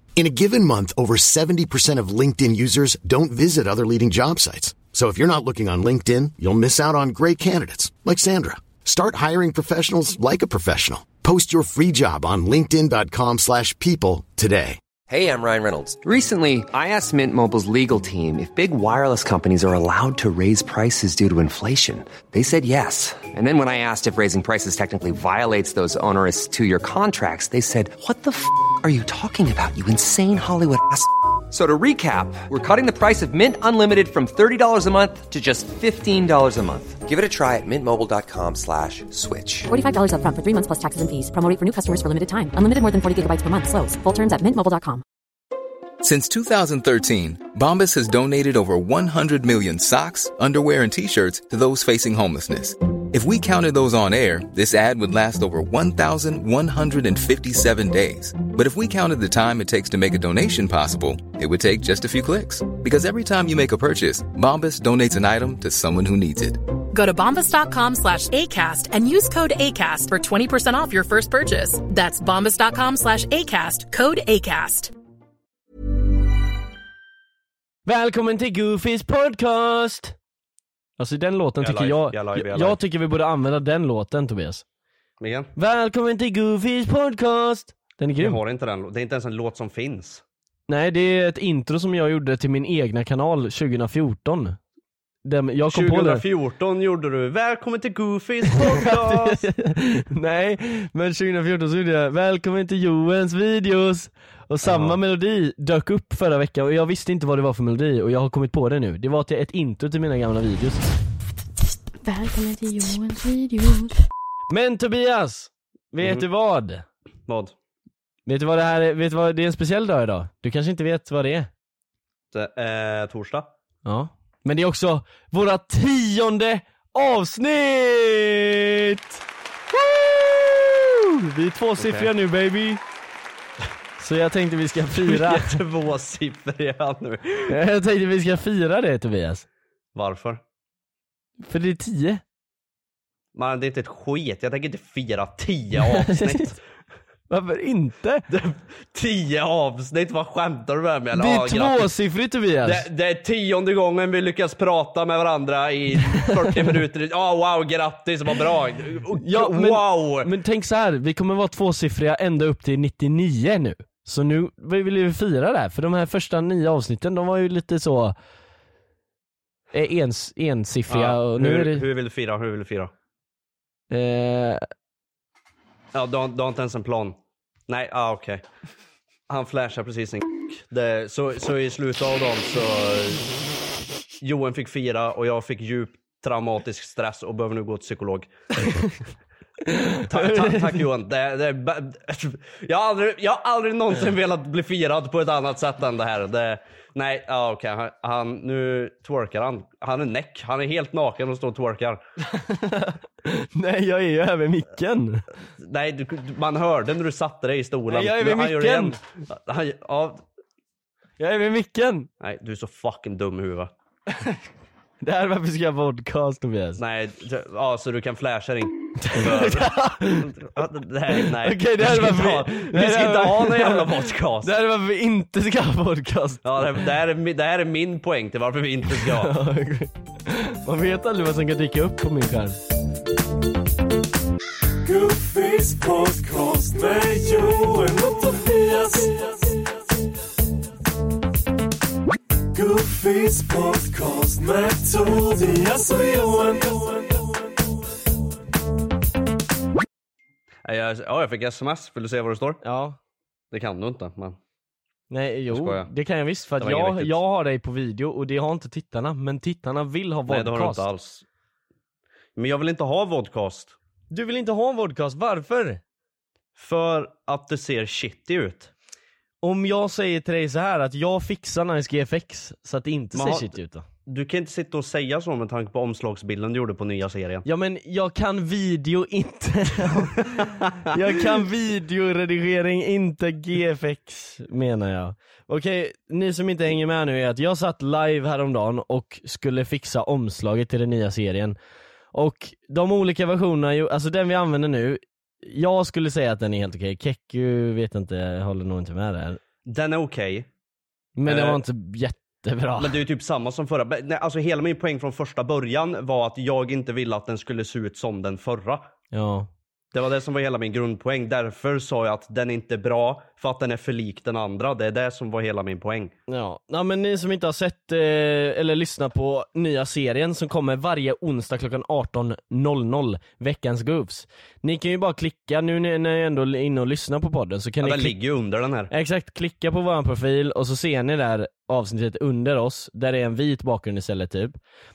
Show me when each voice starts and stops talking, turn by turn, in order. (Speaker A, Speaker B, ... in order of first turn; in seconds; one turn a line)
Speaker A: 0.1-14.8
Speaker B: 15.1-39.7
Speaker C: 39.7-45.0
Speaker D: 46.0-66.6
Speaker E: 66.9-74.9
Speaker F: 77.8-80.1
Speaker F: 81.0-84.6
Speaker G: 81.6-82.8
Speaker G: 85.2-85.5
Speaker F: 85.5-88.4
Speaker G: 88.2-90.2
Speaker F: 90.7-94.6
Speaker F: 95.2-96.2
Speaker G: 95.7-99.5
Speaker F: 98.5-110.9
Speaker G: 104.6-105.0
Speaker H: 112.0-114.0
Speaker F: 114.5-116.8
Speaker G: 117.3-117.5
Speaker F: 118.3-121.5
Speaker G: 122.3-123.5
Speaker F: 123.8-129.2
Speaker F: 129.7-132.8
Speaker G: 131.8-132.1
Speaker F: 134.0-135.6
Speaker G: 135.0-137.6
Speaker F: 137.5-139.4
Speaker G: 139.9-140.4
Speaker F: 141.4-142.2
Speaker G: 143.3-146.6
Speaker F: 145.8-146.5
Speaker F: 147.3-148.2
Speaker G: 148.3-151.9
Speaker F: 151.1-152.8
Speaker G: 152.6-160.3
Speaker F: 156.0-156.8
Speaker F: 159.2-168.1
Speaker F: 169.7-171.8
Speaker G: 170.9-172.9
Speaker F: 173.9-174.6
Speaker G: 175.9-177.2
Speaker G: 177.7-178.4
Speaker G: 179.3-183.3
Speaker G: 184.2-188.3
Speaker F: 188.7-188.9
Speaker F: 189.7-190.8
Speaker G: 190.1-202.0
Speaker F: 202.3-205.2
Speaker G: 205.6-210.2
Speaker F: 207.9-209.0
Speaker F: 211.2-212.1
Speaker G: 212.2-213.7
Speaker F: 214.1-214.4
Speaker F: 215.0-216.8
Speaker G: 216.8-224.5
Speaker F: 219.0-220.3
Speaker F: 221.1-226.6
Speaker G: 226.4-229.3
Speaker F: 228.9-232.6
Speaker G: 250.6-252.6
Speaker F: 252.6-253.0
Speaker G: 253.5-254.4
Speaker F: 255.1-260.8
Speaker G: 255.5-255.9
Speaker G: 256.6-257.2
Speaker G: 260.3-261.2
Speaker G: 262.4-263.8
Speaker F: 264.1-265.8
Speaker G: 266.6-268.7
Speaker F: 269.4-273.8
Speaker G: 273.1-273.5
Speaker G: 274.1-277.4
Speaker F: 277.4-291.6
Speaker F: 292.1-299.4
Speaker G: 299.6-300.5
Speaker F: 301.1-303.0
Speaker G: 301.2-301.6
Speaker G: 302.8-308.8
Speaker F: 309.1-309.5
Speaker G: 309.9-316.1
Speaker F: 316.3-328.1
Speaker G: 327.8-328.9
Speaker F: 328.9-334.6